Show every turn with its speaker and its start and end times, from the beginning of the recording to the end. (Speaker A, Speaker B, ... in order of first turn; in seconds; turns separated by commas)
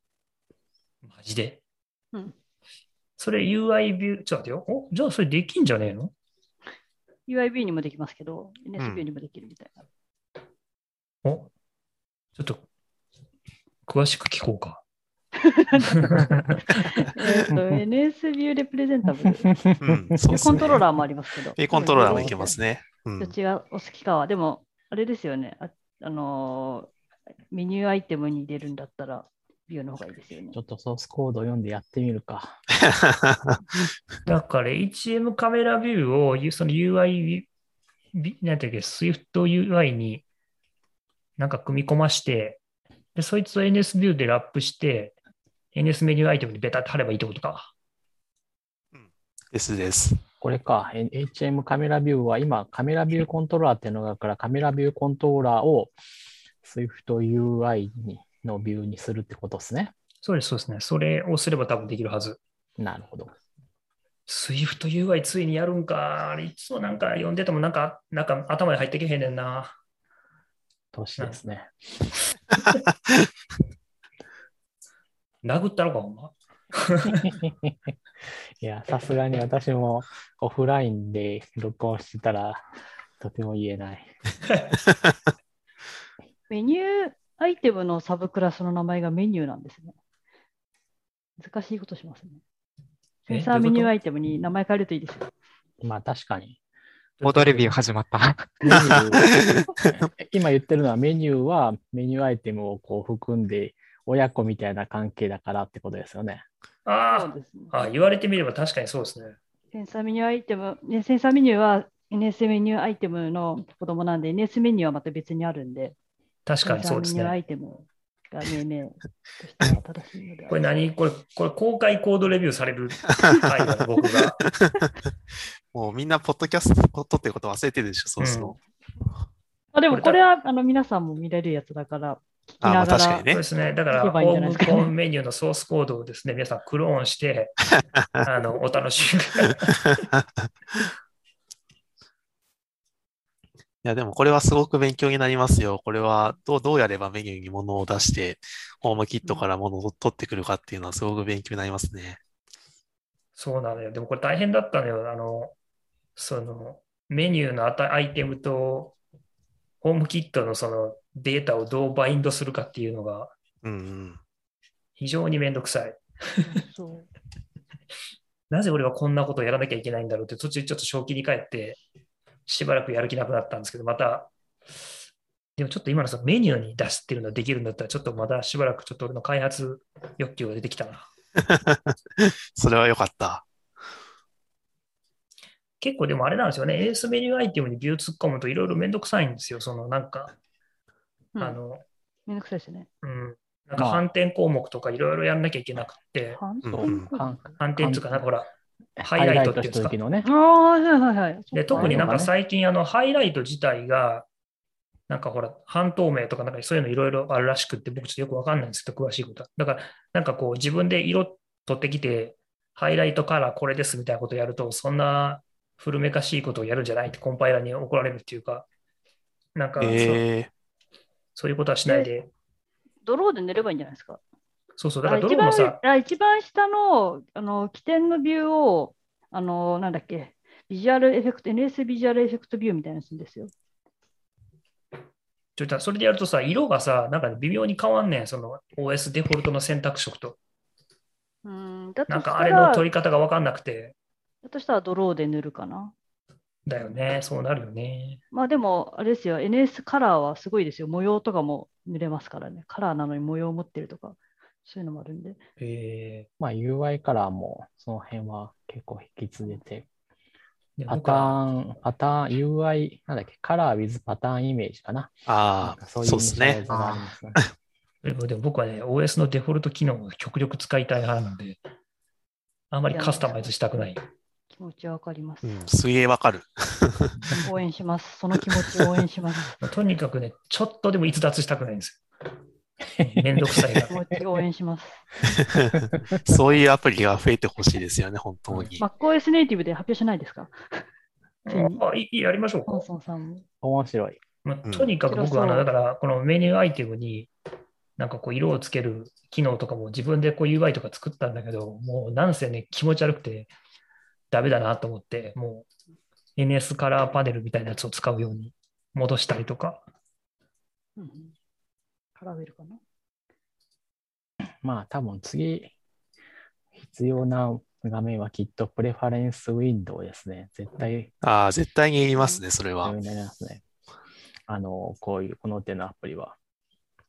Speaker A: 1.0-1.6, Speaker A: 3.2-6.1, Speaker B: 7.3-9.8, Speaker C: 8.8-9.1, Speaker A: 11.2-11.5, Speaker A: 12.4-12.7, Speaker A: 13.9-14.8, Speaker B: 15.4-16.1, Speaker A: 15.8-17.0, Speaker B: 16.7-19.5, Speaker D: 19.2-20.6, Speaker C: 19.8-20.8, Speaker B: 20.3-22.6, Speaker C: 21.6-23.4, Speaker D: 22.1-22.3, Speaker B: 23.2-26.9, Speaker B: 27.5-30.6, Speaker D: 30.5-32.6, Speaker C: 32.9-33.6, Speaker A: 34.3-37.5, Speaker A: 38.1-40.2, Speaker A: 41.4-42.6, Speaker A: 43.1-45.1, Speaker A: 45.7-47.7, Speaker C: 48.9-50.2, Speaker D: 50.4-55.9, Speaker D: 56.6-59.9, Speaker A: 60.2-62.4, Speaker D: 62.8-63.3, Speaker A: 64.3-69.7, Speaker D: 70.9-71.7, Speaker A: 75.4-77.3, Speaker D: 77.1-77.9, Speaker D: 78.6-82.6, Speaker D: 83.2-84.1, Speaker B: 86.5-90.0, Speaker B: 91.4-92.4, Speaker B: 93.3-95.3, Speaker A: 93.3-93.9, Speaker D: 95.8-96.6, Speaker A: 97.2-97.7, Speaker E: 97.2-99.0, Speaker D: 98.6-106.4, Speaker C: 99.3-99.5, Speaker A: 106.9-109.4, Speaker B: 107.1-107.7, Speaker B: 109.7-116.0, Speaker A: 116.5-117.4, Speaker B: 116.6-120.7, Speaker A: 120.5-124.4, Speaker C: 124.5-124.8, Speaker C: 125.7-128.6, Speaker A: 128.2-128.6, Speaker B: 129.7-133.3, Speaker A: 129.9-130.2, Speaker C: 132.6-133.4, Speaker A: 133.3-137.6, Speaker B: 133.9-134.9, Speaker A: 138.2-139.8, Speaker C: 139.9-140.3, Speaker C: 143.8-152.2, Speaker A: 153.4-155.5, Speaker A: 156.2-159.0, Speaker A: 159.8-163.3, Speaker C: 163.6-164.2, Speaker A: 165.0-166.4, Speaker B: 166.4-167.1, Speaker A: 168.5-171.8, Speaker A: 172.5-174.3, Speaker A: 175.6-181.1, Speaker C: 181.4-183.4, Speaker A: 185.8-190.3, Speaker A: 191.4-191.8, Speaker B: 192.3-192.9, Speaker A: 193.0-196.4, Speaker D: 193.8-194.1, Speaker B: 196.3-197.6, Speaker C: 196.6-197.1, Speaker D: 196.7-198.2, Speaker A: 197.6-198.5, Speaker D: 199.0-200.3, Speaker A: 199.0-199.9, Speaker B: 200.2-202.3, Speaker A: 201.5-204.3, Speaker D: 201.7-202.3, Speaker A: 205.1-218.7, Speaker A: 219.6-220.2, Speaker C: 219.8-220.5, Speaker A: 221.4-222.3, Speaker B: 223.0-224.2, Speaker A: 224.8-225.8, Speaker B: 225.1-233.5, Speaker A: 235.6-240.4, Speaker B: 241.4-242.9, Speaker A: 242.1-243.9, Speaker B: 244.4-245.9, Speaker A: 246.7-248.2, Speaker B: 248.3-255.4, Speaker A: 255.6-256.3, Speaker D: 256.4-259.9, Speaker A: 260.8-261.4, Speaker D: 260.9-267.4, Speaker C: 265.3-266.6, Speaker E: 266.7-267.0, Speaker A: 268.0-271.6, Speaker A: 272.7-274.0, Speaker B: 272.9-273.5, Speaker B: 274.5-275.6, Speaker C: 275.4-277.2, Speaker B: 277.3-279.6, Speaker A: 279.6-282.0, Speaker D: 283.0-283.9, Speaker A: 283.0-283.9, Speaker B: 283.9-285.0, Speaker C: 285.2-288.8, Speaker D: 285.8-286.2, Speaker B: 288.8-290.8, Speaker A: 291.5-292.8, Speaker B: 291.5-291.8, Speaker B: 292.7-293.4, Speaker D: 293.6-294.2, Speaker A: 294.4-297.3, Speaker C: 294.7-294.9, Speaker B: 295.1-295.7, Speaker A: 298.0-303.5, Speaker A: 304.3-305.7, Speaker A: 306.4-309.8, Speaker B: 311.0-311.3, Speaker B: 312.2-312.8, Speaker D: 314.6-315.7, Speaker D: 316.8-321.1, Speaker C: 321.2-322.9, Speaker B: 322.2-322.4, Speaker D: 322.8-323.6, Speaker D: 324.5-326.4